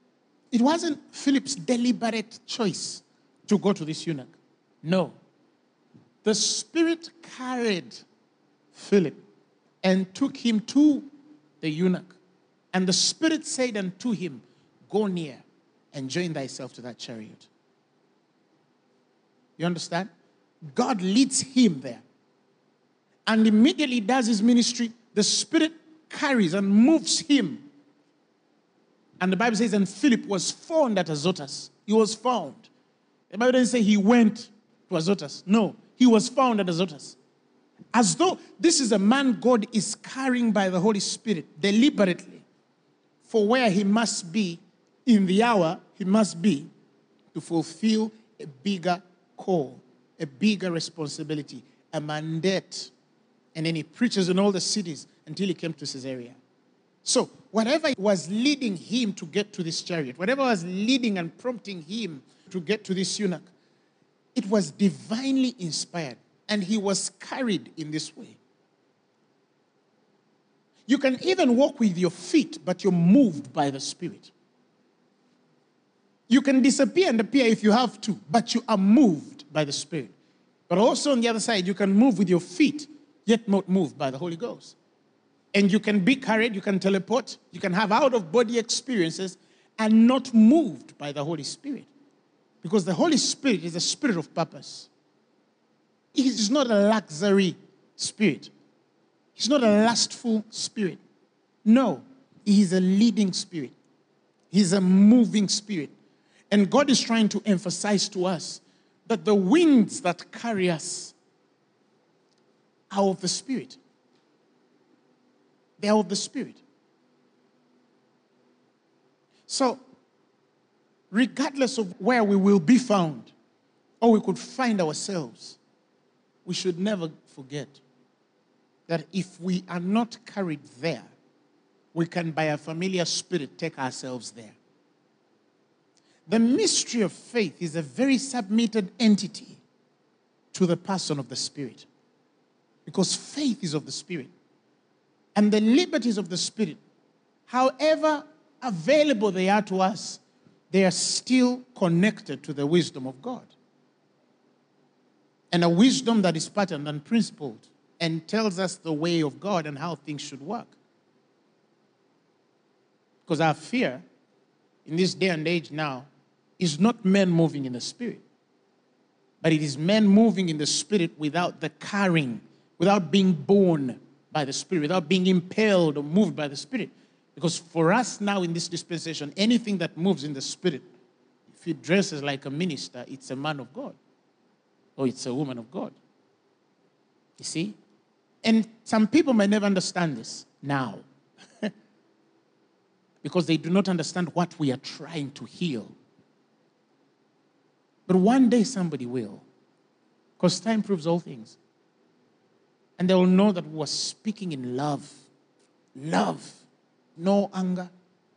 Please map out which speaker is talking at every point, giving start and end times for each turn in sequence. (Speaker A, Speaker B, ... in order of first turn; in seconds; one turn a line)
Speaker A: 0.5-5.1
Speaker A: 6.2-8.1
Speaker A: 8.7-9.2
Speaker A: 9.8-11.1
Speaker A: 11.6-12.2
Speaker A: 12.7-17.5
Speaker A: 19.6-20.1
Speaker A: 20.7-22.0
Speaker A: 23.3-27.7
Speaker A: 29.2-32.7
Speaker A: 33.3-37.2
Speaker A: 37.9-42.5
Speaker A: 43.2-46.7
Speaker A: 47.3-52.9
Speaker A: 53.5-56.4
Speaker A: 57.0-63.5
Speaker A: 64.3-68.4
Speaker A: 70.9-74.3
Speaker A: 76.3-80.1
Speaker A: 80.7-84.8
Speaker A: 85.5-91.9
Speaker A: 92.6-94.9
Speaker A: 96.1-98.5
Speaker A: 99.4-101.0
Speaker A: 101.7-103.8
Speaker A: 104.5-105.9
Speaker A: 106.5-111.2
Speaker A: 112.9-113.8
Speaker A: 115.8-116.6
Speaker A: 119.5-119.8
Speaker A: 121.1-123.3
Speaker A: 124.0-125.6
Speaker A: 126.5-127.8
Speaker A: 128.9-131.1
Speaker A: 131.9-134.6
Speaker A: 136.3-139.6
Speaker A: 140.5-141.9
Speaker A: 142.9-144.3
Speaker A: 145.3-146.8
Speaker A: 147.5-153.5
Speaker A: 155.5-160.8
Speaker A: 163.3-164.1
Speaker A: 164.8-166.1
Speaker A: 166.6-168.2
Speaker A: 169.4-180.9
Speaker A: 181.5-184.0
Speaker A: 185.0-185.9
Speaker A: 187.4-187.8
Speaker A: 188.4-191.1
Speaker A: 193.2-195.9
Speaker A: 198.1-199.4
Speaker A: 200.4-201.6
Speaker A: 203.0-205.3
Speaker A: 206.0-206.7
Speaker A: 207.2-207.9